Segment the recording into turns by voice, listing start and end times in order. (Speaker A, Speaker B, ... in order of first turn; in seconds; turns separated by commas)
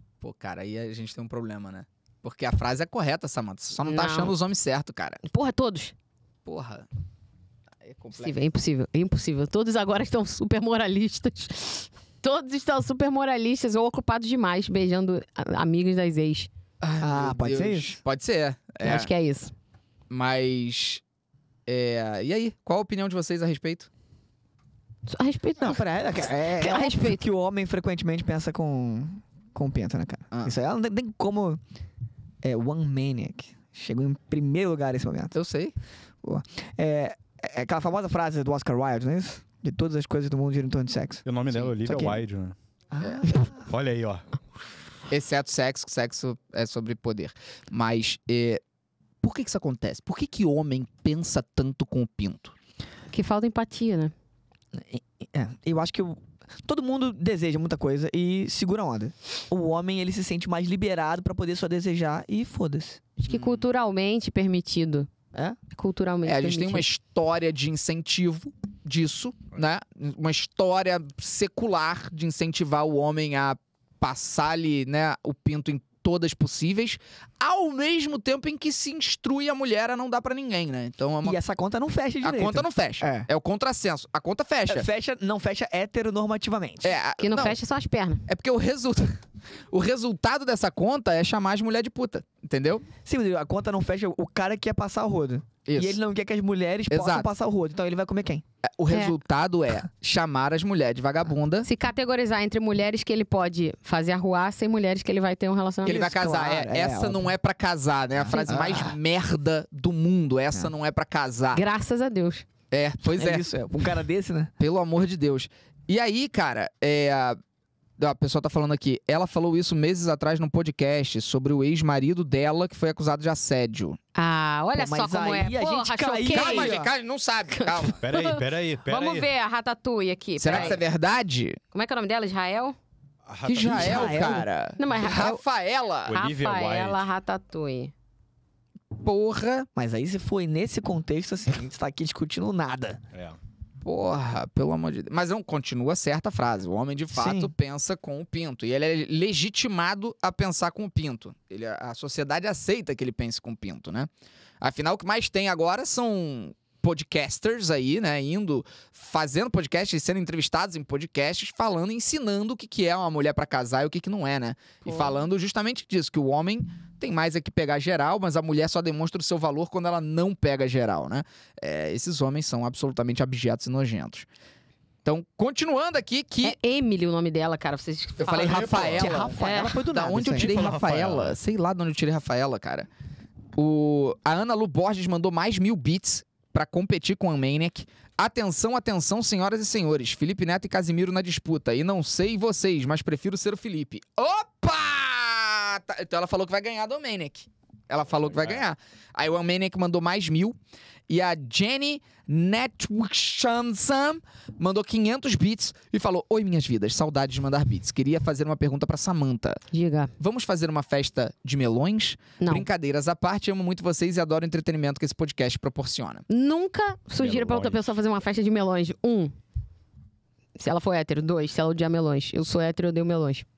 Speaker A: 0.2-5.2, Speaker B: 3.8-4.3, Speaker B: 5.2-5.9, Speaker A: 6.5-6.8, Speaker A: 7.8-8.4, Speaker B: 8.1-16.5, Speaker A: 16.8-19.1, Speaker C: 17.0-18.0, Speaker B: 18.8-19.5, Speaker A: 20.1-21.0, Speaker A: 21.6-23.9, Speaker B: 25.1-25.8, Speaker C: 25.6-31.6, Speaker B: 26.4-27.2, Speaker A: 30.3-30.6, Speaker C: 32.4-35.3, Speaker A: 35.3-35.7, Speaker C: 36.2-41.2, Speaker D: 41.2-42.5, Speaker C: 41.8-42.2, Speaker C: 42.9-43.5, Speaker A: 43.0-43.3, Speaker D: 43.5-44.2, Speaker A: 45.1-48.6, Speaker A: 49.2-52.5, Speaker B: 53.1-54.1, Speaker C: 54.7-63.0, Speaker B: 63.2-65.1, Speaker A: 63.3-63.7, Speaker B: 65.7-66.8, Speaker A: 66.2-81.4, Speaker C: 81.2-83.3, Speaker A: 82.2-84.9, Speaker C: 84.7-87.0, Speaker A: 86.8-87.6, Speaker B: 87.2-88.2, Speaker A: 88.3-89.2, Speaker A: 89.7-92.9, Speaker C: 93.0-98.4, Speaker A: 95.7-96.0, Speaker A: 96.9-97.3, Speaker A: 98.6-101.7, Speaker B: 98.9-99.1, Speaker B: 101.6-106.0, Speaker C: 105.8-107.3, Speaker A: 105.8-111.6, Speaker C: 108.2-109.0, Speaker B: 108.3-108.8, Speaker B: 111.5-112.5, Speaker A: 112.7-113.4, Speaker C: 113.0-114.5, Speaker A: 114.6-117.4, Speaker A: 118.0-124.0, Speaker B: 124.1-126.8, Speaker C: 124.7-126.9, Speaker A: 126.3-128.0, Speaker B: 127.5-130.8, Speaker D: 128.0-129.3, Speaker A: 130.4-131.6, Speaker B: 131.7-132.8, Speaker D: 133.2-134.4, Speaker A: 133.4-136.2, Speaker C: 133.6-134.5, Speaker B: 134.8-135.4, Speaker D: 136.1-137.1, Speaker B: 136.1-137.9, Speaker A: 138.9-139.7, Speaker C: 139.7-143.0, Speaker D: 143.1-143.4, Speaker A: 143.8-154.1, Speaker C: 147.1-147.5, Speaker A: 154.6-174.3, Speaker B: 164.8-165.2, Speaker A: 175.0-176.6, Speaker B: 176.4-179.8, Speaker A: 178.2-182.9, Speaker D: 178.3-179.3, Speaker C: 178.9-180.6, Speaker D: 180.2-181.4, Speaker A: 183.5-200.6, Speaker D: 198.3-198.6, Speaker A: 201.1-209.6, Speaker B: 209.7-210.1, Speaker A: 210.2-216.2, Speaker B: 212.4-212.7, Speaker B: 216.3-219.3, Speaker D: 217.2-217.9, Speaker B: 220.6-223.4